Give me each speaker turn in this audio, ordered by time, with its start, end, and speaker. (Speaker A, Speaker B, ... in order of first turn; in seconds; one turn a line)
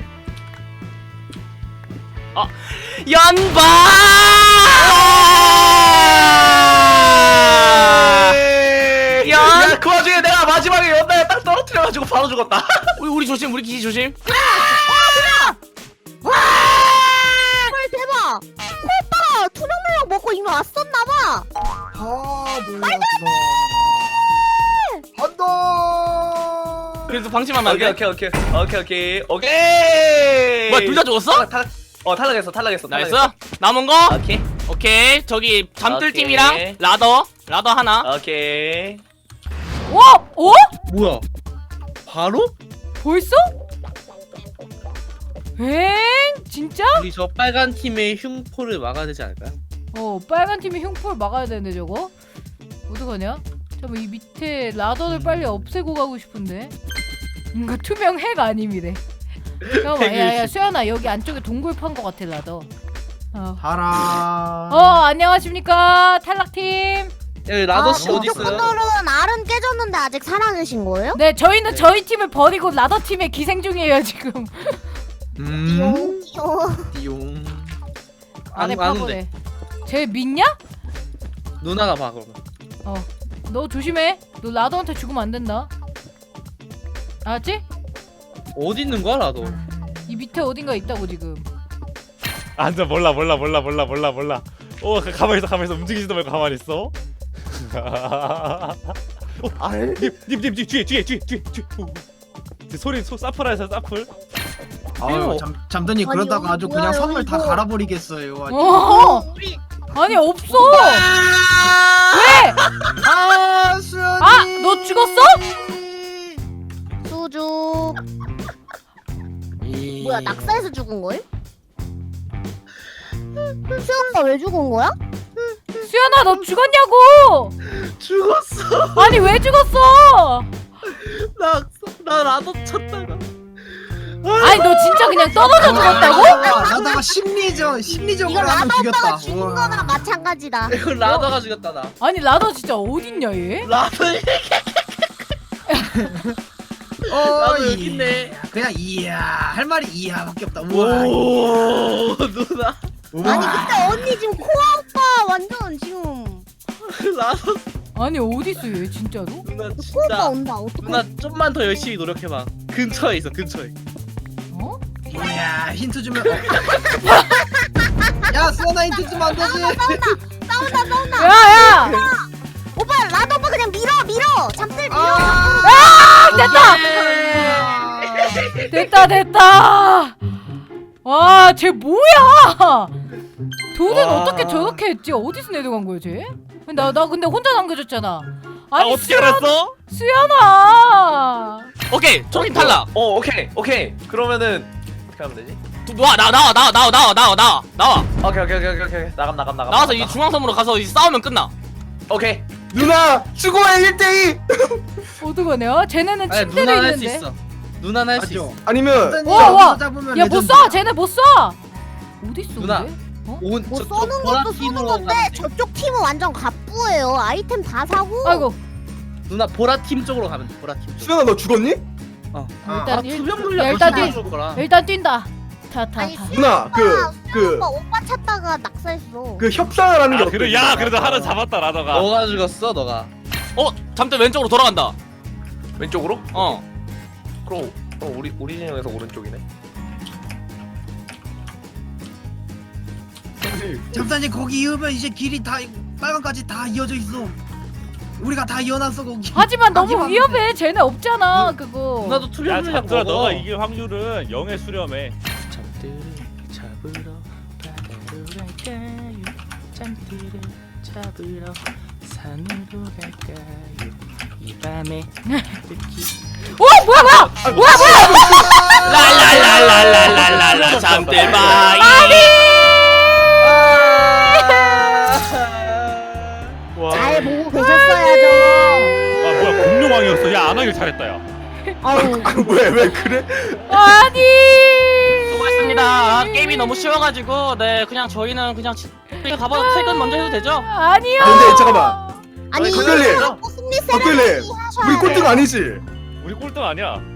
Speaker A: 2.3-8.3
Speaker B: 7.9-13.0
Speaker A: 9.2-9.8
Speaker A: 13.0-14.2
Speaker C: 14.3-15.6
Speaker C: 17.7-21.5
Speaker D: 21.9-24.3
Speaker C: 22.8-23.1
Speaker D: 25.1-27.1
Speaker A: 27.1-28.0
Speaker B: 27.6-33.3
Speaker A: 30.7-31.5
Speaker A: 32.9-38.1
Speaker B: 34.1-34.5
Speaker B: 35.9-36.8
Speaker B: 38.0-39.0
Speaker E: 39.9-40.7
Speaker F: 40.9-41.2
Speaker F: 42.1-42.5
Speaker E: 43.0-43.5
Speaker E: 45.6-47.0
Speaker F: 46.9-49.6
Speaker E: 49.9-52.1
Speaker E: 52.9-56.8
Speaker F: 55.1-55.5
Speaker E: 57.5-59.0
Speaker F: 59.6-60.5
Speaker E: 59.7-62.7
Speaker E: 63.3-63.6
Speaker D: 63.6-65.0
Speaker E: 64.7-67.1
Speaker F: 67.5-68.7
Speaker C: 67.7-71.2
Speaker D: 67.9-68.8
Speaker E: 71.1-74.8
Speaker D: 75.4-76.2
Speaker C: 75.7-76.9
Speaker D: 76.9-77.8
Speaker E: 78.5-79.3
Speaker F: 78.5-79.2
Speaker E: 79.9-80.6
Speaker F: 81.6-82.4
Speaker E: 82.8-85.7
Speaker E: 87.2-87.6
Speaker F: 88.5-89.6
Speaker E: 90.1-91.5
Speaker G: 92.6-96.9
Speaker G: 97.5-102.0
Speaker H: 99.6-100.2
Speaker G: 102.7-104.1
Speaker D: 105.0-109.1
Speaker G: 105.1-105.4
Speaker C: 106.0-107.6
Speaker E: 108.5-109.2
Speaker C: 108.8-109.6
Speaker E: 109.9-111.1
Speaker E: 112.1-112.6
Speaker D: 113.0-116.1
Speaker E: 114.2-115.4
Speaker C: 117.0-118.0
Speaker D: 119.6-120.7
Speaker C: 120.0-121.2
Speaker C: 123.7-125.0
Speaker E: 125.8-127.5
Speaker F: 127.6-129.3
Speaker E: 129.0-130.5
Speaker F: 130.9-133.3
Speaker F: 134.2-136.8
Speaker E: 134.4-136.4
Speaker D: 135.6-140.1
Speaker C: 135.7-137.0
Speaker C: 138.2-141.3
Speaker F: 140.7-141.9
Speaker E: 142.0-143.7
Speaker F: 143.6-144.9
Speaker E: 145.7-146.1
Speaker D: 146.0-146.3
Speaker D: 147.1-151.4
Speaker F: 147.1-148.4
Speaker F: 150.7-153.6
Speaker D: 153.1-154.2
Speaker C: 153.2-156.5
Speaker F: 156.8-157.7
Speaker E: 157.9-159.4
Speaker F: 159.4-163.8
Speaker C: 159.8-161.1
Speaker E: 164.5-164.8
Speaker D: 165.1-166.7
Speaker C: 167.1-168.3
Speaker D: 168.3-170.1
Speaker C: 168.9-176.0
Speaker E: 171.2-172.0
Speaker D: 174.9-178.4
Speaker E: 175.6-176.8
Speaker F: 176.3-178.9
Speaker E: 178.7-180.3
Speaker E: 181.0-183.0
Speaker E: 183.7-191.7
Speaker F: 183.9-184.8
Speaker G: 188.8-189.8
Speaker A: 191.9-192.9
Speaker B: 192.3-195.6
Speaker A: 195.9-198.1
Speaker B: 198.2-200.2
Speaker A: 199.7-201.5
Speaker B: 202.1-202.6
Speaker H: 202.7-204.9
Speaker E: 205.2-207.3
Speaker F: 206.3-208.6
Speaker D: 208.2-210.8
Speaker H: 208.6-209.7
Speaker E: 209.2-211.6
Speaker E: 212.2-213.4
Speaker F: 212.6-215.5
Speaker C: 213.7-218.5
Speaker E: 218.2-218.6
Speaker F: 219.3-221.2
Speaker H: 221.0-221.8
Speaker F: 222.3-224.7
Speaker D: 222.7-223.0
Speaker E: 222.7-226.3
Speaker C: 223.7-224.2
Speaker C: 226.0-229.5
Speaker H: 226.3-227.7
Speaker H: 229.4-231.1
Speaker G: 230.1-232.2
Speaker F: 230.9-231.3
Speaker F: 231.9-233.1
Speaker A: 233.6-235.0
Speaker B: 235.8-236.6
Speaker A: 236.3-236.6
Speaker B: 237.4-239.4
Speaker H: 243.4-243.9
Speaker D: 243.9-247.4
Speaker D: 248.2-250.4
Speaker E: 249.3-252.3
Speaker F: 251.3-253.5
Speaker G: 252.4-255.2
Speaker A: 255.5-266.1
Speaker E: 266.4-269.2
Speaker H: 267.3-271.8
Speaker A: 268.8-272.5
Speaker E: 271.8-272.7
Speaker F: 273.4-276.4
Speaker E: 274.2-274.7
Speaker H: 276.8-277.4
Speaker C: 276.9-279.2
Speaker E: 277.5-278.9
Speaker G: 279.2-281.2
Speaker H: 279.4-279.7
Speaker E: 281.7-282.2
Speaker C: 281.9-282.3
Speaker H: 281.9-284.2
Speaker E: 283.7-286.7
Speaker A: 285.3-290.7
Speaker E: 289.2-290.1
Speaker E: 290.7-292.2
Speaker H: 291.2-292.0
Speaker C: 292.5-295.5
Speaker B: 292.5-293.4
Speaker H: 292.7-293.3
Speaker H: 293.9-295.8
Speaker G: 296.2-297.1